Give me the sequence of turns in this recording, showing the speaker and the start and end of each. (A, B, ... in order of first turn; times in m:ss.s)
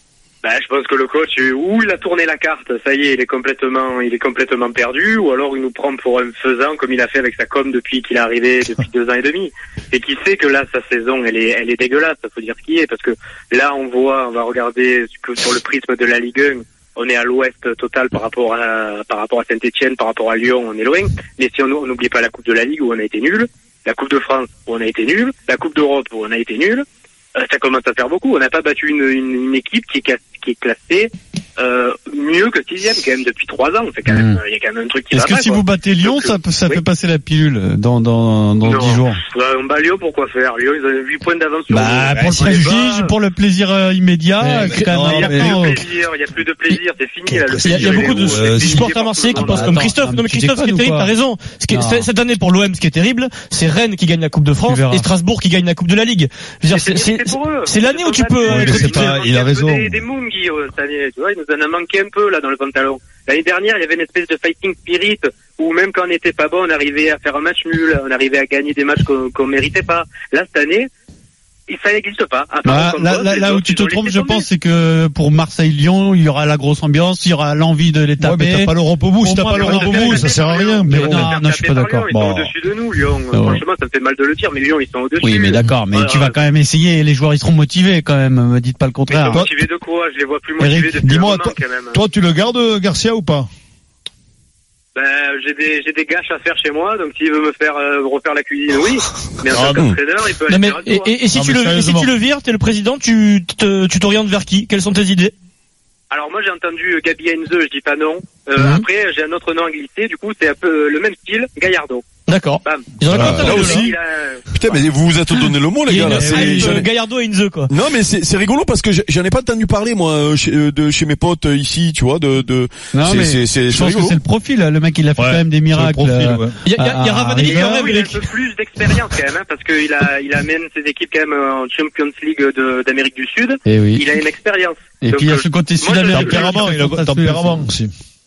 0:00.4-0:36.8 A
0:34.1-0:34.4 B
0:35.1-0:39.2 B
0:38.6-0:43.1 A
0:41.7-0:42.7 C
0:41.7-0:45.8 B
0:44.4-0:44.9 D
0:44.7-0:45.8 C
0:44.9-0:49.9 A
0:47.5-0:48.9 C
0:47.6-0:59.1 D
0:49.3-0:51.1 B
0:51.7-0:52.1 B
0:54.7-0:55.0 B
0:56.7-1:10.9 A
0:58.5-1:00.0 C
1:11.7-1:14.5 A
1:12.6-1:18.7 B
1:18.2-1:21.3 C
1:19.2-1:26.4 A
1:19.2-1:20.3 B
1:20.9-1:22.1 B
1:22.1-1:22.5 C
1:23.3-1:23.6 B
1:25.2-1:29.4 B
1:29.1-1:29.5 C
1:29.3-1:32.0 A
1:30.6-1:31.0 B
1:31.0-1:33.5 C
1:34.9-1:41.1 A
1:39.5-1:39.9 C
1:40.5-1:45.3 D
1:41.3-1:42.1 C
1:46.1-1:52.0 A
1:52.3-1:53.9 D
1:52.6-1:54.8 A
1:53.1-1:53.9 E
1:54.5-1:56.8 E
1:55.9-1:57.7 D
1:56.0-1:56.8 B
1:57.7-2:04.2 E
2:02.9-2:07.8 B
2:05.2-2:06.6 C
2:06.6-2:08.3 D
2:07.4-2:16.6 A
2:13.6-2:14.1 B
2:15.0-2:17.7 B
2:16.1-2:17.9 C